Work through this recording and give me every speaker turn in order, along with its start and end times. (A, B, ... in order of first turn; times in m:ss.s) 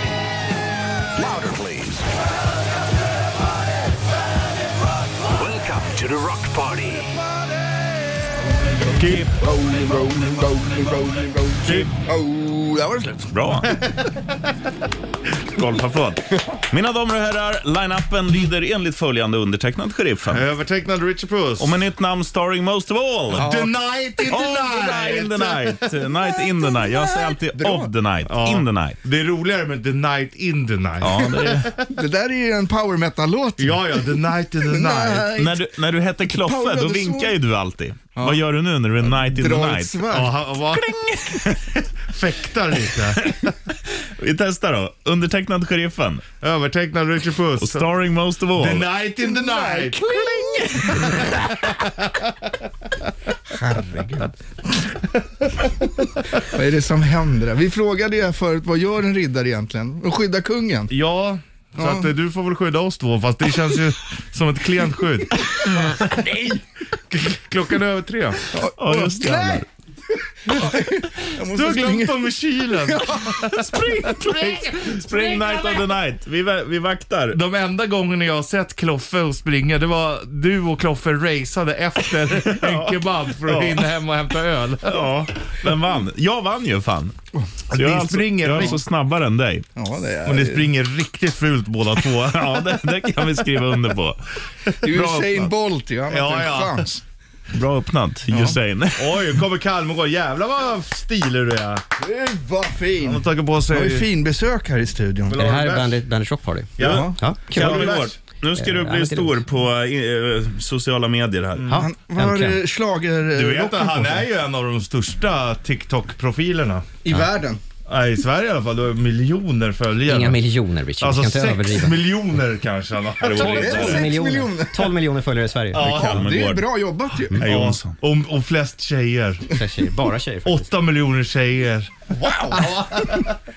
0:01.1-0:02.1 A
0:05.2-0:07.2 A
0:08.9-0:09.3 B
0:09.2-0:13.2 C
0:11.6-0:11.9 B
0:13.3-0:13.7 D
0:13.6-0:14.3 B
0:15.5-0:20.4 D
0:20.3-0:21.8 B
0:21.6-0:23.5 D
0:23.3-0:25.7 B
0:23.4-0:23.7 C
0:24.3-0:29.0 D
0:26.6-0:27.9 C
0:28.2-0:31.8 B
0:31.0-0:31.7 D
0:31.0-0:35.6 C
0:33.6-0:35.3 B
0:35.4-0:40.0 D
0:36.3-0:37.3 C
0:39.0-0:40.3 C
0:40.1-0:40.9 B
0:40.7-0:41.8 D
0:42.1-0:43.4 B
0:43.2-0:43.5 D
0:44.1-0:46.2 D
0:46.4-0:47.9 B
0:47.6-0:48.8 D
0:48.6-0:50.0 B
0:49.2-0:51.2 C
0:51.0-0:52.0 B
0:53.5-0:54.3 C
0:56.3-1:00.9 C
1:00.9-1:06.0 B
1:01.8-1:02.1 C
1:06.0-1:06.5 C
1:07.1-1:08.4 B
1:08.5-1:09.6 C
1:08.8-1:09.6 D
1:10.4-1:13.6 C
1:11.5-1:15.7 B
1:13.5-1:17.4 D
1:17.3-1:25.0 B
1:22.4-1:23.8 D
1:24.8-1:27.1 D
1:27.7-1:28.8 B
1:27.7-1:29.6 D
1:29.8-1:30.7 C
1:30.2-1:32.7 B
1:32.2-1:34.2 D
1:34.8-1:37.0 C
1:34.8-1:35.5 D
1:36.1-1:36.9 B
1:37.5-1:39.3 D
1:39.0-1:41.8 B
1:42.0-1:45.4 C
1:43.0-1:44.1 B
1:45.3-1:46.0 B
1:45.3-1:47.6 E
1:46.8-1:48.1 B
1:46.8-1:48.0 C
1:47.5-1:51.7 D
1:48.5-1:49.4 E
1:51.6-1:51.8 B
1:51.7-1:52.6 E
1:51.7-1:54.3 C
1:53.3-1:56.9 B
1:57.0-1:57.6 C
1:57.9-2:00.4 B
2:00.1-2:02.0 E
2:01.0-2:04.0 B
2:03.2-2:04.0 D
2:03.3-2:06.0 E
2:03.4-2:04.9 C
2:05.7-2:06.3 B
2:05.8-2:06.6 D
2:05.9-2:07.4 C
2:07.3-2:08.0 D
2:07.4-2:09.4 B
2:09.5-2:10.7 E
2:10.4-2:13.4 B
2:12.1-2:12.8 C